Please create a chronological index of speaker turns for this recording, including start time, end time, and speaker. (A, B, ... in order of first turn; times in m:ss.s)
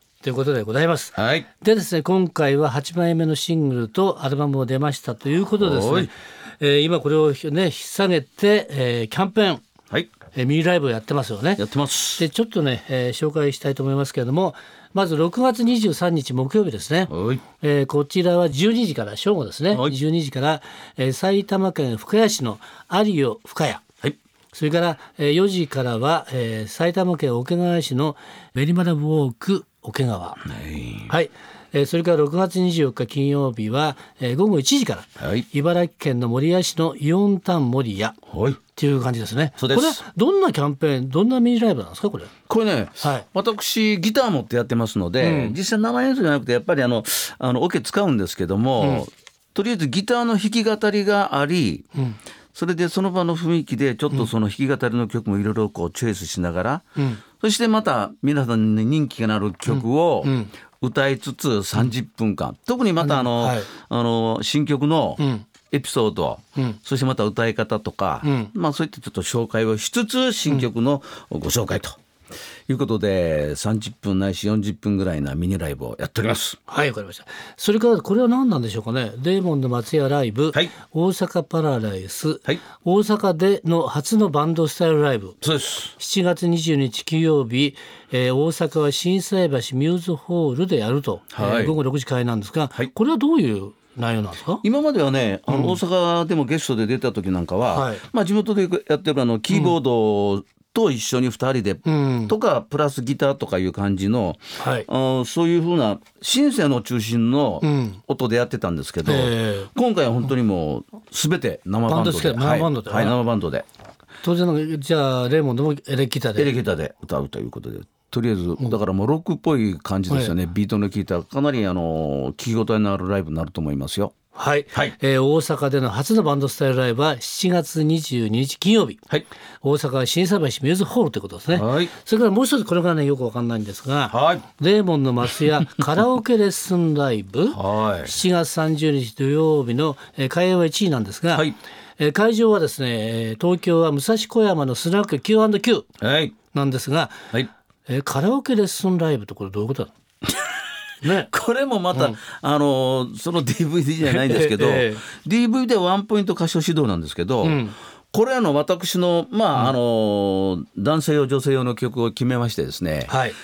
0:00.2-0:09.6 A
0:01.2-0:01.5 B
0:05.6-0:06.1 B
0:10.3-0:11.6 A
0:11.6-0:12.2 B
0:12.2-0:23.8 A
0:17.1-0:17.4 B
0:24.5-0:30.4 A
0:30.4-0:31.1 B
0:31.1-0:38.2 A
0:35.2-0:35.4 B
0:38.3-0:38.6 B
0:38.8-0:42.3 A
0:39.6-0:40.0 B
0:42.5-0:51.9 B
0:43.0-0:43.2 A
0:45.2-0:45.6 A
0:48.8-0:49.0 A
0:52.5-0:56.8 B
0:57.0-0:57.2 A
0:57.4-1:12.0 B
0:59.7-1:00.5 A
1:03.0-1:03.7 A
1:05.2-1:05.4 A
1:08.2-1:08.5 A
1:12.7-1:16.6 B
1:16.7-1:25.4 A
1:25.4-1:25.9 B
1:26.0-1:34.6 A
1:31.3-1:31.7 B
1:34.6-1:53.6 B
1:35.5-1:35.8 A
1:37.7-1:38.0 A
1:41.8-1:42.3 A
1:44.6-1:44.9 A
1:47.6-1:48.0 A
1:49.0-1:49.7 A
1:51.9-1:53.2 A
1:54.2-1:56.5 A
1:56.4-2:04.1 B
2:04.3-2:09.0 A
2:09.6-2:25.9 A
2:11.5-2:11.9 B
2:14.1-2:14.4 B
2:17.5-2:18.1 B
2:26.0-2:26.3 B
2:26.5-2:27.2 A
2:27.9-2:29.9 A
2:31.0-2:31.3 A
2:31.2-2:43.2 B
2:34.0-2:35.0 A
2:37.4-2:37.7 A
2:43.1-2:43.4 A